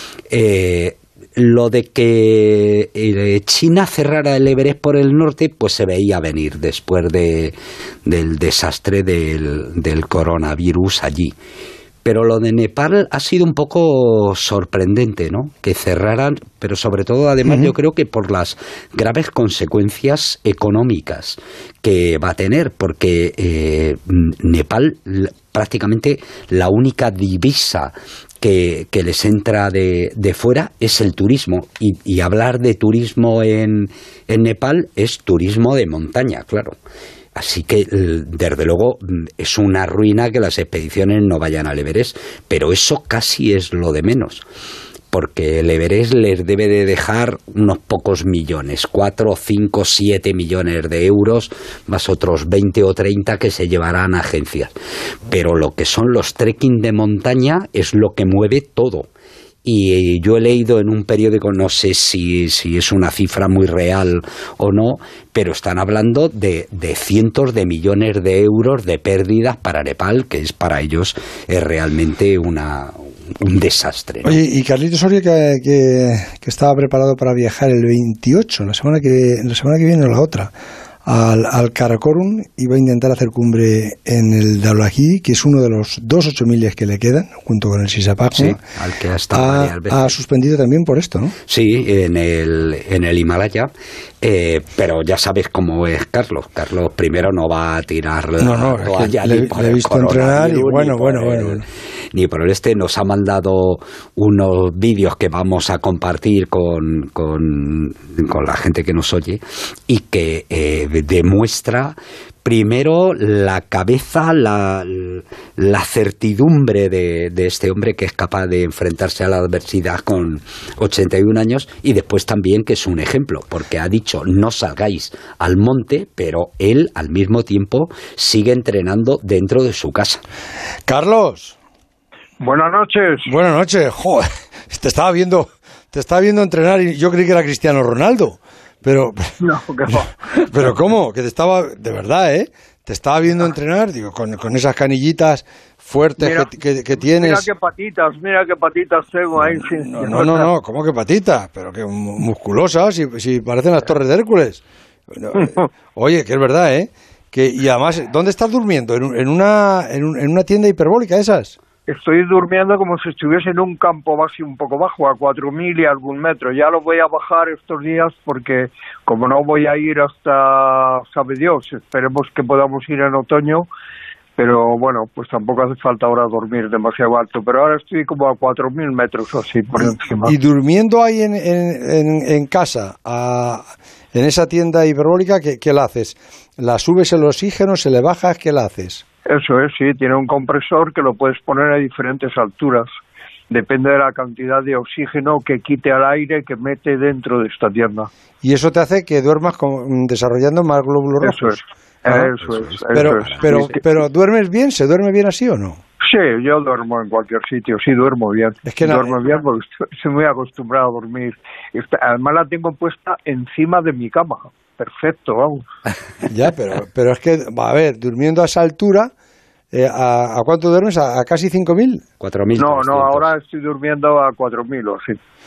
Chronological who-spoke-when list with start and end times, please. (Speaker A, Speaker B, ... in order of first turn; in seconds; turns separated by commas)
Speaker A: 0.3-11.3, Speaker A: 12.0-36.7, Speaker B: 17.4-17.7, Speaker A: 37.3-44.4, Speaker A: 45.1-54.7, Speaker A: 55.3-59.1, Speaker A: 59.6-74.4, Speaker B: 74.2-80.5, Speaker B: 81.0-88.6, Speaker A: 88.3-90.1, Speaker B: 89.3-91.3, Speaker A: 91.5-101.6, Speaker B: 98.4-101.6, Speaker A: 102.1-130.2, Speaker B: 130.9-131.6, Speaker C: 132.4-133.3, Speaker B: 133.2-139.3, Speaker C: 139.4-140.3, Speaker B: 140.4-147.5, Speaker C: 146.2-146.5, Speaker C: 147.0-150.5, Speaker B: 149.4-161.6, Speaker C: 161.9-173.7, Speaker C: 174.4-180.3, Speaker B: 179.8-189.0, Speaker C: 189.3-192.9, Speaker C: 193.5-198.1, Speaker B: 198.4-202.3, Speaker C: 201.2-203.8, Speaker A: 202.4-203.8, Speaker B: 202.9-205.8, Speaker C: 206.0-215.7, Speaker B: 208.6-209.2, Speaker B: 216.3-219.1, Speaker B: 219.7-222.0, Speaker A: 222.2-223.3, Speaker C: 222.6-225.2